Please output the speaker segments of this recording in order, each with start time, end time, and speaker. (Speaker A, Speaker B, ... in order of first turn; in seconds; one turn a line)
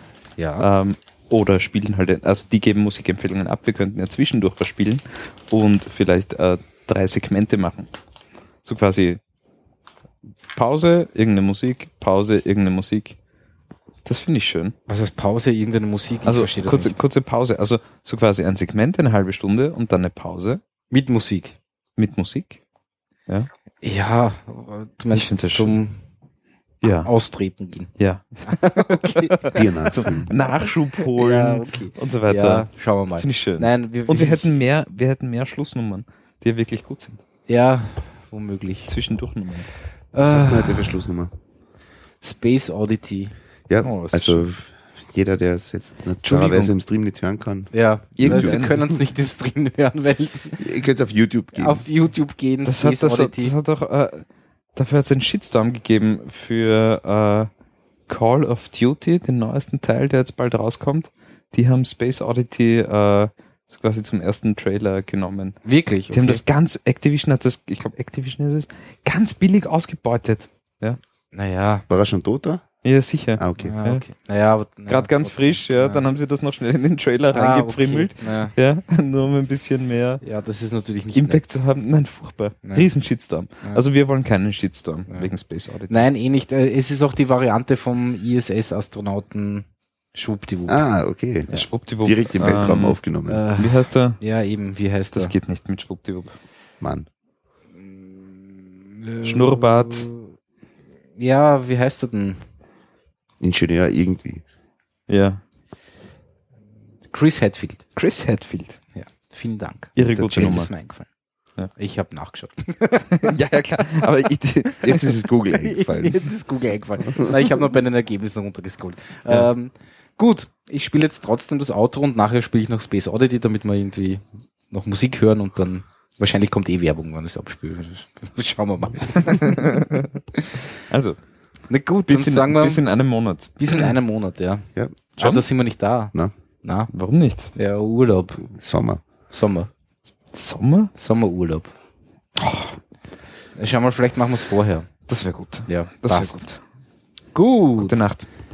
Speaker A: 0.4-0.7
Speaker B: 0.6-7.9
Speaker B: 8.6-9.2
Speaker B: 10.5-13.2
Speaker B: 14.0-14.7
Speaker A: 14.9-17.0
Speaker B: 16.2-20.6
Speaker A: 20.9-21.6
Speaker B: 22.0-22.6
Speaker A: 23.8-26.0
Speaker B: 25.1-25.8
Speaker B: 26.8-27.1
Speaker A: 27.0-27.9
Speaker B: 28.0-37.2
Speaker A: 28.4-34.5
Speaker C: 29.5-30.3
Speaker A: 37.5-38.9
Speaker B: 38.9-39.7
Speaker A: 40.1-41.0
Speaker C: 40.2-41.3
Speaker A: 42.2-43.3
Speaker C: 43.7-48.7
Speaker B: 43.8-44.4
Speaker B: 46.2-46.7
Speaker A: 47.7-50.7
Speaker B: 48.2-48.9
Speaker C: 50.6-51.8
Speaker A: 51.5-53.5
Speaker B: 52.6-57.5
Speaker B: 58.1-65.6
Speaker A: 65.6-66.4
Speaker B: 66.1-71.0
Speaker A: 71.3-71.8
Speaker C: 71.9-72.6
Speaker B: 72.8-74.0
Speaker C: 73.4-73.7
Speaker A: 73.6-76.1
Speaker B: 74.9-80.2
Speaker A: 77.3-78.5
Speaker A: 80.2-81.4
Speaker B: 81.1-86.0
Speaker A: 85.9-90.9
Speaker C: 90.7-91.5
Speaker B: 91.5-93.0
Speaker C: 92.0-93.4
Speaker A: 93.3-95.3
Speaker B: 93.6-94.2
Speaker B: 95.1-96.3
Speaker C: 96.8-97.1
Speaker A: 98.3-100.3
Speaker B: 99.2-100.1
Speaker A: 101.2-102.4
Speaker C: 103.4-104.4
Speaker B: 105.1-105.4
Speaker A: 107.1-107.9
Speaker B: 108.0-108.8
Speaker A: 108.9-111.1
Speaker B: 110.0-110.7
Speaker C: 110.0-110.7
Speaker A: 111.8-113.3
Speaker B: 113.1-115.0
Speaker C: 114.8-116.3
Speaker A: 115.5-129.8
Speaker C: 117.1-117.5
Speaker B: 129.2-130.1
Speaker B: 130.9-131.2
Speaker A: 131.7-132.8
Speaker B: 132.1-133.9
Speaker A: 133.6-136.9
Speaker B: 135.2-135.4
Speaker B: 136.9-137.5
Speaker A: 137.5-138.4
Speaker C: 138.4-139.0
Speaker A: 139.3-139.7
Speaker B: 140.3-140.9
Speaker A: 140.9-141.7
Speaker B: 142.4-142.8
Speaker A: 143.5-144.9
Speaker B: 145.1-146.6
Speaker A: 145.7-146.4
Speaker A: 147.3-148.1
Speaker B: 147.8-148.2